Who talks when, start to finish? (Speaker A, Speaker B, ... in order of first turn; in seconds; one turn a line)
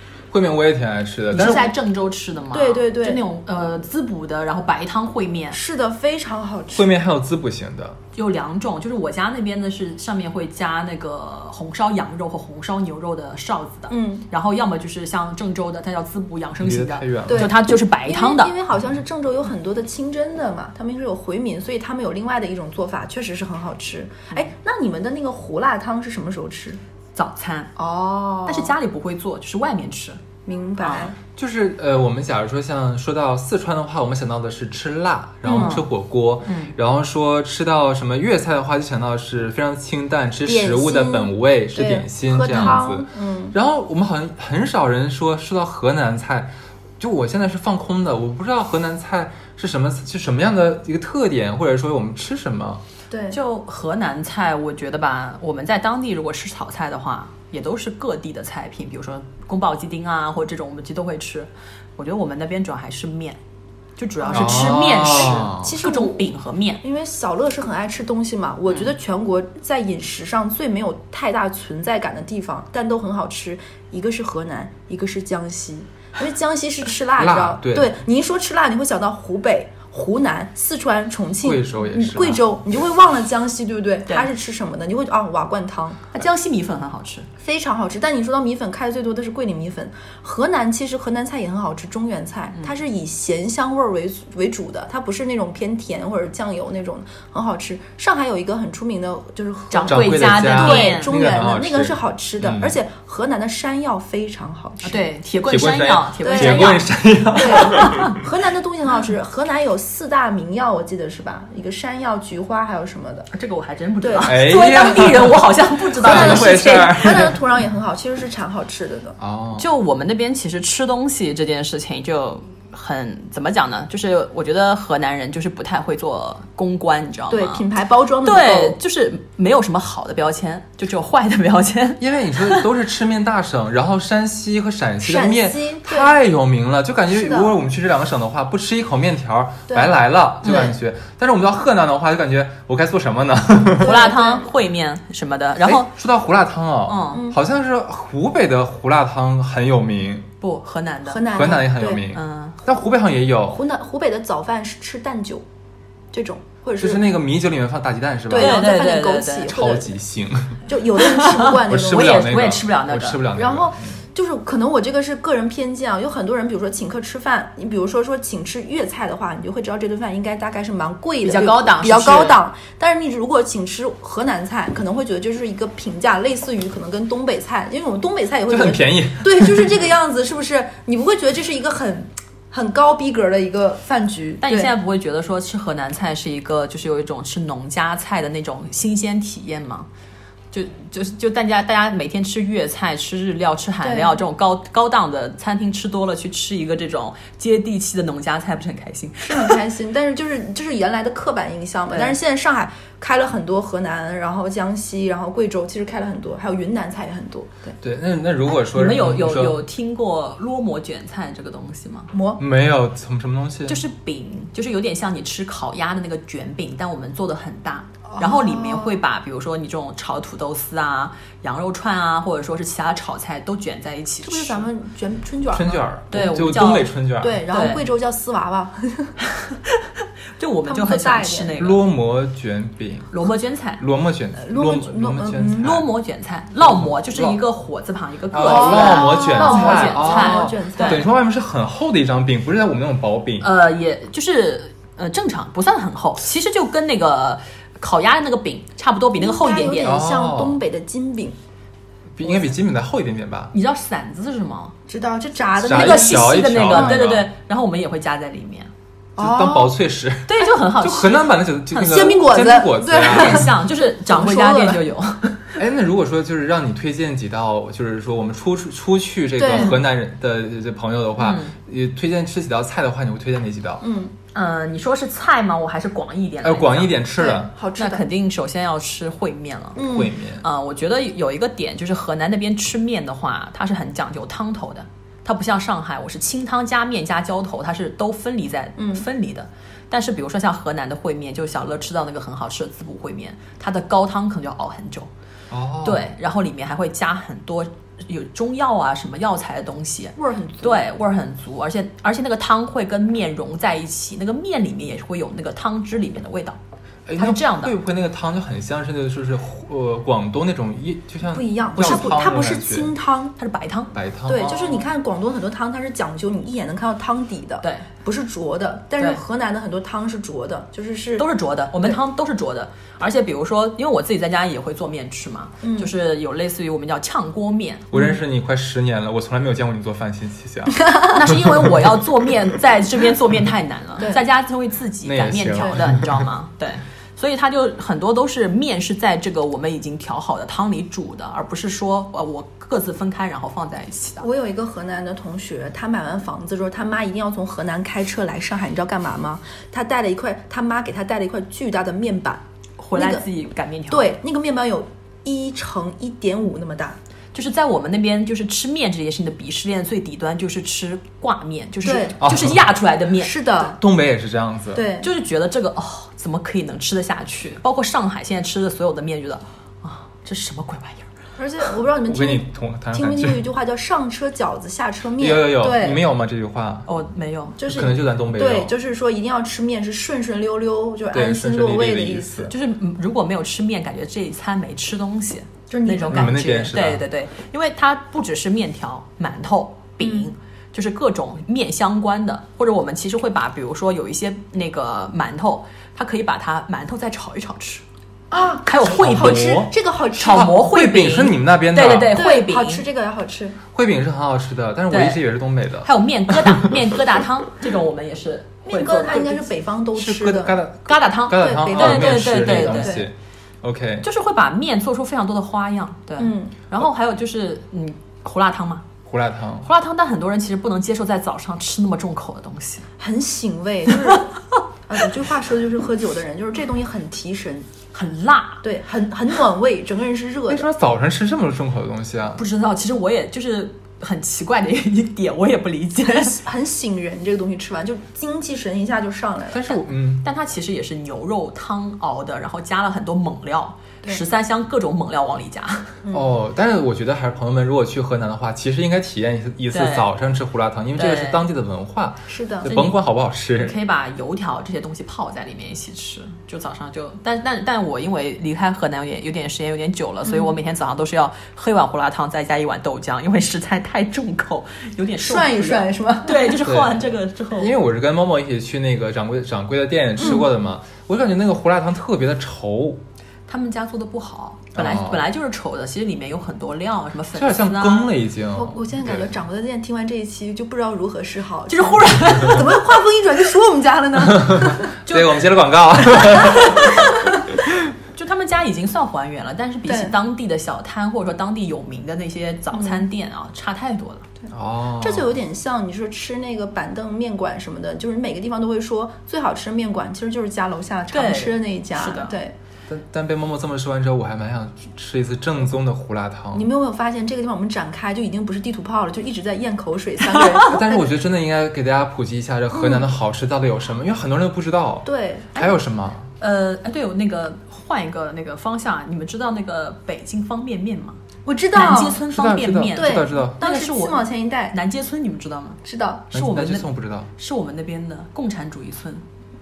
Speaker A: 0.3-1.7
Speaker B: 1.3-5.6
Speaker C: 2.5-3.2
Speaker C: 5.5-6.9
Speaker A: 6.7-8.0
Speaker B: 8.1-18.5
Speaker C: 13.9-14.2
Speaker A: 16.6-17.5
Speaker C: 17.3-26.8
Speaker B: 27.1-27.7
Speaker C: 27.8-28.8
Speaker B: 28.4-30.2
Speaker C: 30.4-31.2
Speaker B: 30.8-31.1
Speaker A: 31.4-52.8
Speaker C: 35.4-35.8
Speaker B: 35.5-35.8
Speaker B: 36.4-36.7
Speaker C: 40.4-43.5
Speaker C: 53.1-53.4
Speaker B: 53.3-63.4
Speaker B: 64.0-66.8
Speaker C: 64.2-86.1
Speaker A: 64.3-65.8
Speaker A: 77.2-77.9
Speaker A: 81.4-82.4
Speaker B: 86.1-87.3
Speaker C: 87.4-105.1
Speaker B: 99.7-101.1
Speaker A: 99.9-102.8
Speaker B: 104.8-106.9
Speaker A: 105.5-108.2
Speaker C: 106.2-113.3
Speaker B: 107.5-108.2
Speaker B: 113.3-117.2
Speaker C: 114.0-114.8
Speaker A: 114.2-115.4
Speaker A: 116.0-117.4
Speaker C: 116.0-119.2
Speaker A: 119.2-119.7
Speaker B: 119.5-127.6
Speaker C: 127.3-128.8
Speaker B: 128.2-132.7
Speaker A: 132.0-144.0
Speaker C: 135.0-136.1
Speaker C: 137.1-137.5
Speaker C: 139.7-139.9
Speaker B: 140.4-140.7
Speaker B: 143.8-145.9
Speaker C: 143.8-144.5
Speaker A: 145.6-150.3
Speaker B: 146.9-147.3
Speaker B: 150.4-151.3
Speaker C: 151.1-152.1
Speaker A: 151.3-153.6
Speaker B: 152.1-152.6
Speaker C: 153.5-155.4
Speaker C: 156.1-157.1
Speaker A: 156.8-158.7
Speaker C: 158.3-159.9
Speaker B: 158.3-159.5
Speaker A: 159.5-160.6
Speaker C: 160.7-162.2
Speaker B: 161.0-163.2
Speaker A: 161.7-164.0
Speaker C: 163.3-184.7
Speaker B: 171.2-172.4
Speaker A: 178.5-179.8
Speaker B: 184.4-189.9
Speaker B: 190.5-199.6
Speaker C: 193.8-194.2
Speaker C: 199.2-207.7
Speaker B: 201.9-202.2
Speaker A: 207.8-209.6
Speaker B: 208.5-212.1
Speaker C: 212.1-212.4
Speaker A: 212.4-213.8
Speaker B: 213.7-224.7
Speaker C: 218.1-219.0
Speaker C: 224.2-225.8
Speaker A: 225.5-227.4
Speaker B: 226.1-226.9
Speaker C: 227.2-229.1
Speaker B: 227.5-227.9
Speaker B: 229.3-231.8
Speaker C: 230.7-231.5
Speaker A: 231.6-233.1
Speaker B: 233.1-233.8
Speaker A: 233.8-235.9
Speaker C: 234.3-235.8
Speaker B: 235.6-241.0
Speaker A: 236.6-237.4
Speaker A: 238.3-243.5
Speaker C: 238.3-241.1
Speaker B: 243.4-250.0
Speaker C: 249.2-251.3
Speaker A: 249.8-250.6
Speaker A: 252.2-253.5
Speaker B: 253.5-254.7
Speaker C: 254.9-257.0
Speaker A: 255.6-257.3
Speaker B: 255.7-258.7
Speaker C: 259.2-259.7
Speaker A: 259.2-263.5
Speaker B: 260.3-262.2
Speaker C: 261.8-264.8
Speaker B: 263.0-265.6
Speaker A: 265.6-273.8
Speaker C: 269.4-269.8
Speaker B: 271.2-271.5
Speaker C: 273.8-274.1
Speaker B: 274.3-277.0
Speaker A: 276.4-277.5
Speaker C: 277.2-278.0
Speaker B: 277.8-279.9
Speaker C: 279.8-280.1
Speaker A: 279.9-280.4
Speaker B: 280.4-295.1
Speaker C: 288.8-289.1
Speaker A: 295.5-296.1
Speaker B: 295.8-306.6
Speaker C: 300.2-300.8
Speaker A: 307.1-312.9
Speaker B: 307.1-307.7
Speaker C: 311.3-313.3
Speaker B: 311.8-312.1
Speaker B: 313.4-313.9
Speaker A: 313.9-314.9
Speaker C: 314.3-321.3
Speaker B: 317.6-317.9
Speaker B: 321.2-327.9
Speaker C: 325.6-325.9
Speaker A: 327.9-331.8
Speaker B: 331.1-344.2
Speaker A: 335.0-336.2
Speaker C: 335.6-335.8
Speaker C: 344.2-352.4
Speaker B: 352.8-354.1
Speaker C: 352.9-353.2
Speaker C: 353.9-357.0
Speaker B: 357.3-363.4
Speaker C: 361.8-362.1
Speaker A: 362.2-362.7
Speaker C: 363.2-363.8
Speaker A: 363.6-364.9
Speaker C: 364.7-365.1
Speaker B: 365.0-371.1
Speaker C: 371.4-376.0
Speaker A: 372.1-373.4
Speaker A: 375.2-376.9
Speaker B: 376.9-377.6
Speaker C: 377.6-382.5
Speaker A: 377.7-378.7
Speaker A: 381.1-382.5
Speaker B: 382.5-397.8
Speaker C: 385.7-386.4
Speaker A: 386.1-387.0
Speaker C: 390.0-390.3
Speaker C: 398.3-400.5
Speaker B: 398.6-402.8
Speaker A: 398.8-399.7
Speaker A: 400.3-402.2
Speaker C: 402.1-403.6
Speaker A: 403.7-406.8
Speaker B: 404.9-405.2
Speaker B: 405.8-409.5
Speaker C: 408.6-410.6
Speaker A: 409.9-414.1
Speaker B: 410.9-413.0
Speaker C: 411.4-413.1
Speaker B: 414.0-418.8
Speaker C: 416.2-416.5
Speaker A: 419.1-419.7
Speaker B: 419.6-422.9
Speaker C: 423.0-424.3
Speaker C: 424.9-427.7
Speaker B: 427.9-428.6
Speaker C: 428.6-430.7
Speaker A: 430.5-432.4
Speaker B: 432.4-436.4
Speaker C: 436.0-439.7
Speaker A: 439.5-440.2
Speaker B: 440.2-446.0
Speaker C: 446.0-446.3
Speaker A: 446.1-453.8
Speaker B: 449.7-450.1
Speaker B: 450.9-451.4
Speaker C: 452.3-452.7
Speaker B: 452.6-453.0
Speaker B: 453.5-467.7
Speaker C: 460.2-460.5
Speaker C: 465.2-466.6
Speaker A: 466.6-473.0
Speaker C: 470.2-470.4
Speaker B: 473.5-478.1
Speaker A: 474.7-475.2
Speaker A: 477.3-479.3
Speaker C: 478.5-484.9
Speaker B: 481.7-482.8
Speaker A: 484.3-486.9
Speaker B: 485.1-485.3
Speaker C: 486.2-486.7
Speaker B: 486.5-487.1
Speaker B: 488.1-494.2
Speaker C: 489.9-490.1
Speaker C: 492.7-493.0
Speaker A: 494.5-495.4
Speaker C: 495.0-502.5
Speaker B: 501.1-502.4
Speaker A: 502.9-506.7
Speaker C: 506.5-511.1
Speaker A: 510.7-516.3
Speaker C: 512.7-513.0
Speaker C: 515.0-515.7
Speaker B: 516.4-521.2
Speaker C: 521.4-522.2
Speaker B: 521.7-525.8
Speaker A: 522.3-523.6
Speaker C: 522.9-524.7
Speaker C: 525.8-526.3
Speaker A: 526.3-527.3
Speaker B: 526.3-529.2